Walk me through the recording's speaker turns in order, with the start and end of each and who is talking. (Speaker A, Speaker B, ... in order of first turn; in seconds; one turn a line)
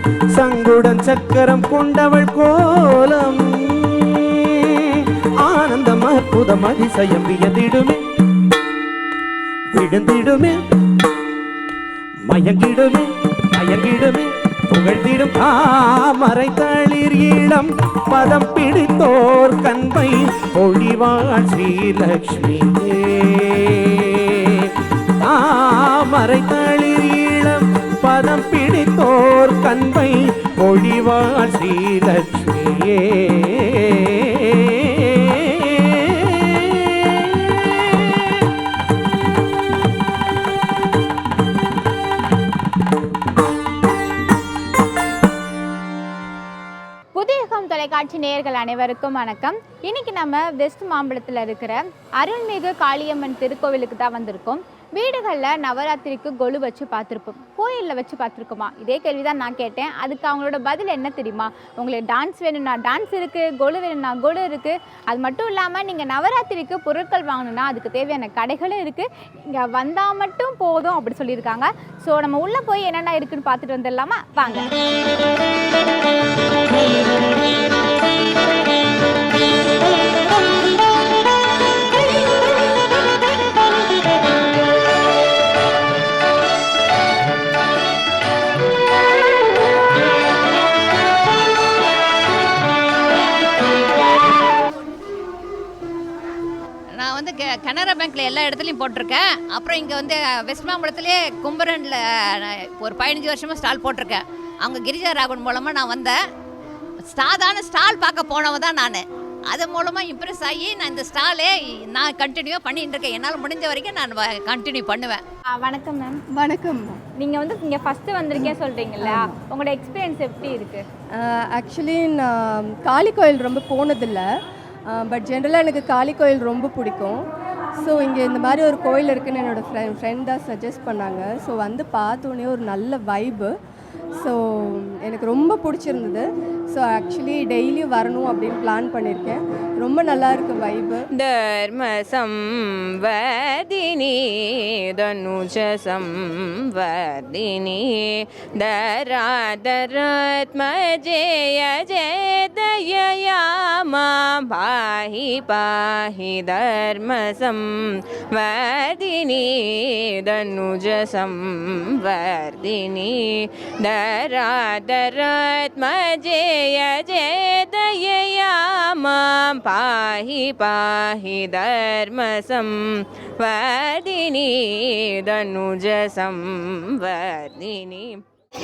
Speaker A: 0.3-8.0
Speaker A: 9.7-10.6
Speaker A: 12.3-38.4
Speaker B: 47.1-74.7
Speaker C: 96.9-106.2
Speaker C: 107.1-115.2
Speaker B: 115.5-116.2
Speaker D: 116.3-117.0
Speaker B: 117.2-120.8
Speaker D: 119.0-119.3
Speaker D: 121.2-124.3
Speaker D: 124.9-127.2
Speaker D: 127.8-133.5
Speaker D: 134.2-141.1
Speaker E: 141.1-178.2